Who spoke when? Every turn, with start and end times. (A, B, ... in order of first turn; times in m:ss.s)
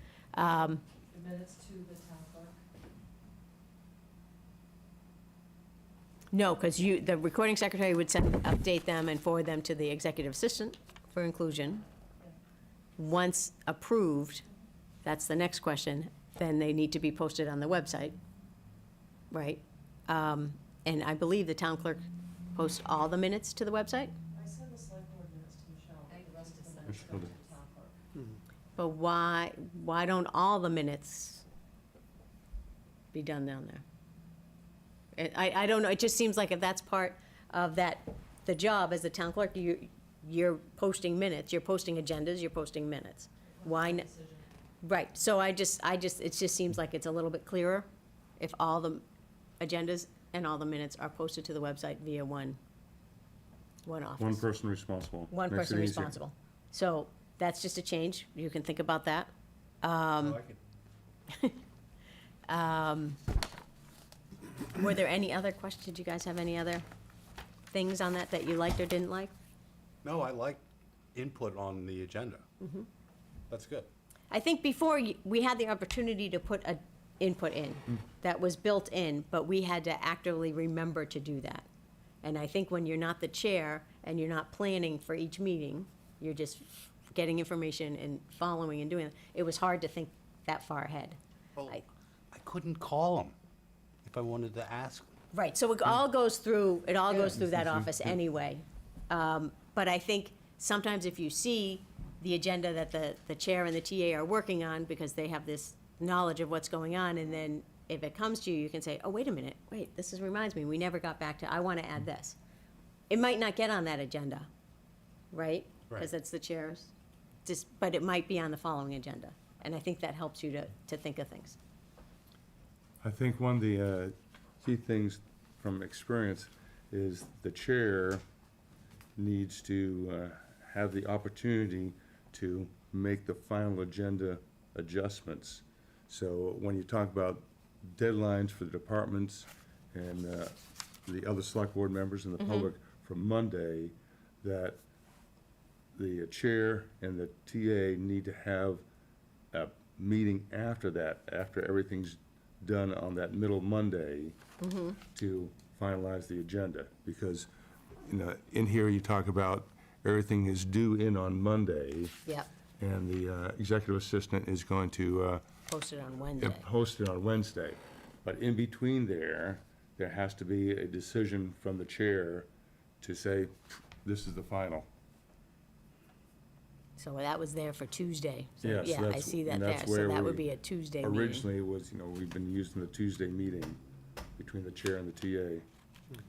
0:00.3-0:00.8 A
0:01.0-0:02.6 B
0:06.3-0:11.8 A
0:13.0-0:14.4 A
0:15.0-0:18.2 A
0:19.3-0:22.0 A
0:22.5-0:24.1 A
0:24.3-0:28.0 B
0:26.1-0:27.0 A
0:26.9-0:27.3 C
0:28.8-0:31.4 A
0:33.1-0:33.8 A
0:35.1-0:44.1 A
0:44.8-0:47.9 A
0:48.4-0:49.0 A
0:49.6-0:52.6 A
0:53.8-0:54.4 A
0:54.2-0:56.1 C
0:55.3-0:59.3 A
0:59.8-1:00.4 A
1:00.2-1:00.6 D
1:01.3-1:01.6 A
1:02.5-1:03.2 A
1:04.7-1:06.8 A
1:07.7-1:09.3 A
1:10.0-1:10.6 D
1:11.1-1:12.4 D
1:12.6-1:12.9 A
1:13.5-1:13.9 D
1:14.3-1:21.6 A
1:22.2-1:31.8 A
1:32.3-1:33.4 D
1:34.0-1:35.1 D
1:35.3-1:52.4 A
1:37.2-1:38.0 C
1:53.1-1:54.5 A
1:55.3-1:56.9 A
1:57.4-2:01.6 A
2:03.0-2:08.2 C
2:09.2-2:20.5 C
2:21.0-2:24.8 C
2:22.4-2:22.7 A
2:25.9-2:28.8 C
2:29.5-2:34.4 C
2:34.6-2:35.0 A
2:35.1-2:37.5 C
2:38.0-2:42.2 C
2:42.8-2:45.4 C
2:45.7-2:46.6 A
2:46.4-2:52.5 C
2:53.0-2:54.9 C
2:57.0-3:01.5 A
2:58.6-3:00.4 C
3:01.0-3:03.8 C
3:04.4-3:05.6 C